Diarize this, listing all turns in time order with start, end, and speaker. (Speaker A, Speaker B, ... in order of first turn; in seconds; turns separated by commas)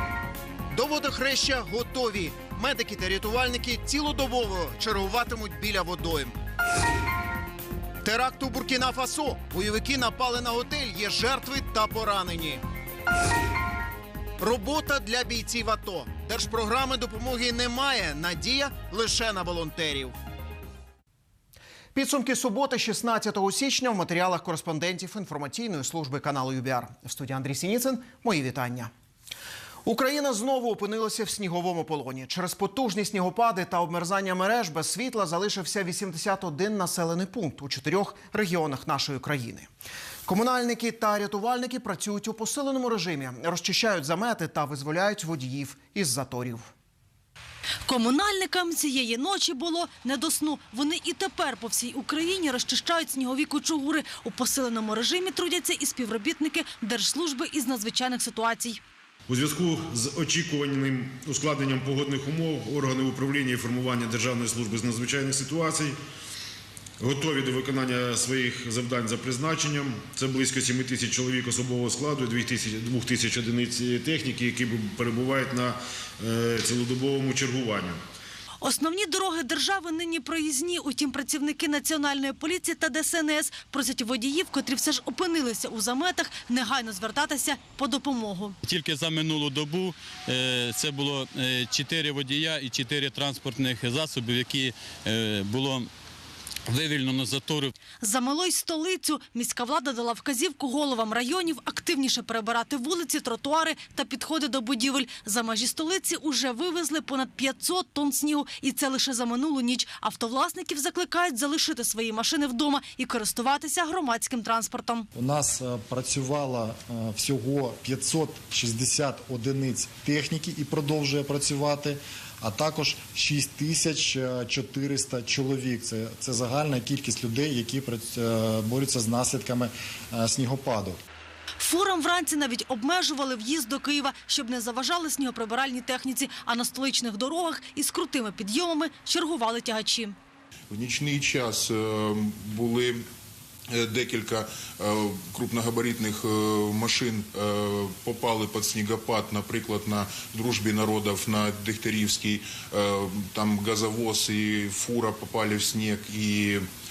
Speaker A: 0.7-6.4, Speaker A: 8.0-12.6, Speaker A: 14.4-20.2, Speaker A: 21.9-28.9, Speaker A: 29.9-39.7, Speaker A: 40.3-46.7, Speaker B: 47.9-58.8, Speaker C: 59.3-65.9, Speaker C: 67.0-78.0, Speaker B: 78.6-88.6, Speaker D: 88.8-89.9, Speaker D: 90.5-94.7, Speaker D: 95.3-95.9, Speaker D: 96.9-97.7, Speaker B: 98.0-115.1, Speaker E: 115.2-131.0, Speaker B: 131.6-140.2, Speaker F: 140.7-143.0, Speaker F: 143.7-156.7